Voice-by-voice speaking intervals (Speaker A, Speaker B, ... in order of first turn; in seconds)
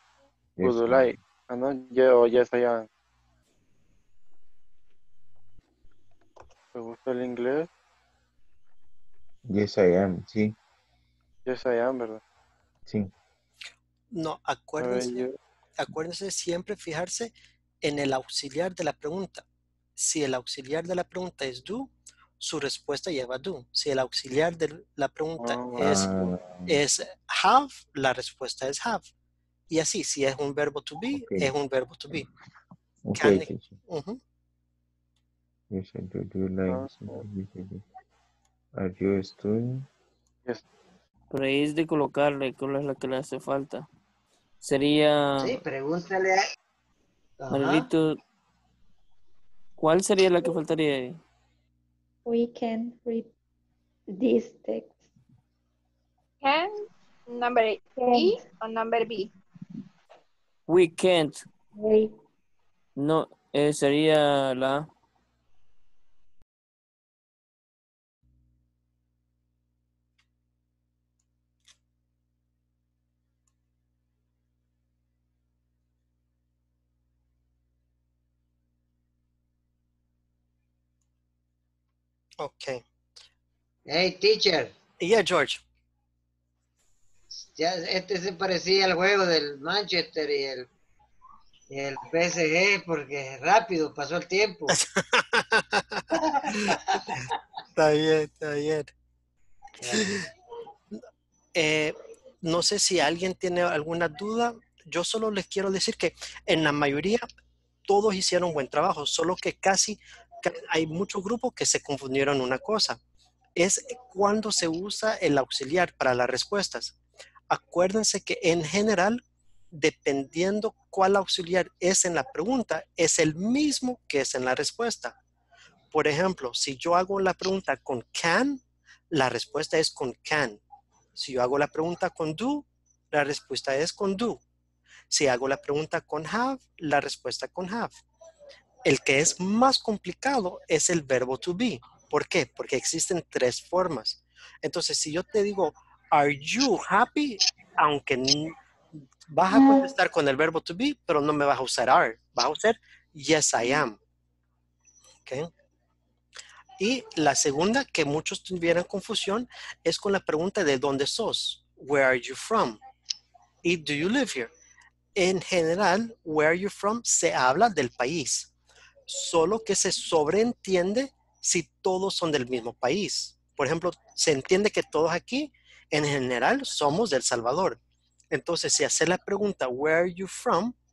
Speaker A: 0.6-1.2, 9.5-10.6, 25.8-26.7, 31.1-31.5, 33.0-33.8, 35.7-37.8, 38.7-39.9
Speaker B: 0.6-2.9, 6.7-7.7, 11.4-12.2, 14.8-15.4, 25.4-25.9, 36.7-37.1
Speaker C: 14.1-19.4, 19.9-26.1, 26.7-29.1, 29.7-32.3, 33.1-34.2, 82.4-82.8, 85.0-85.6, 94.7-97.2, 97.8-98.9, 101.5-107.3, 107.9-113.0, 113.5-117.0, 117.5-119.2, 119.7-125.2, 125.9-130.6, 131.1-134.4, 135.1-138.0, 138.8-148.6, 149.3-154.0, 155.2-155.5, 156.8-162.8, 163.6-164.5, 165.2-168.5, 169.1-177.8, 178.3-180.7
Speaker D: 41.3-43.8, 44.6-45.6, 47.5-48.2, 49.8-51.1, 60.7-61.5, 63.0-64.8
Speaker E: 45.4-46.5, 47.4-47.9, 83.9-84.7, 87.4-90.7, 91.7-94.8, 96.5-97.2, 99.8-100.2
Speaker F: 52.3-53.3, 54.1-55.0, 58.0-58.4, 61.8-62.1
Speaker G: 56.4-59.3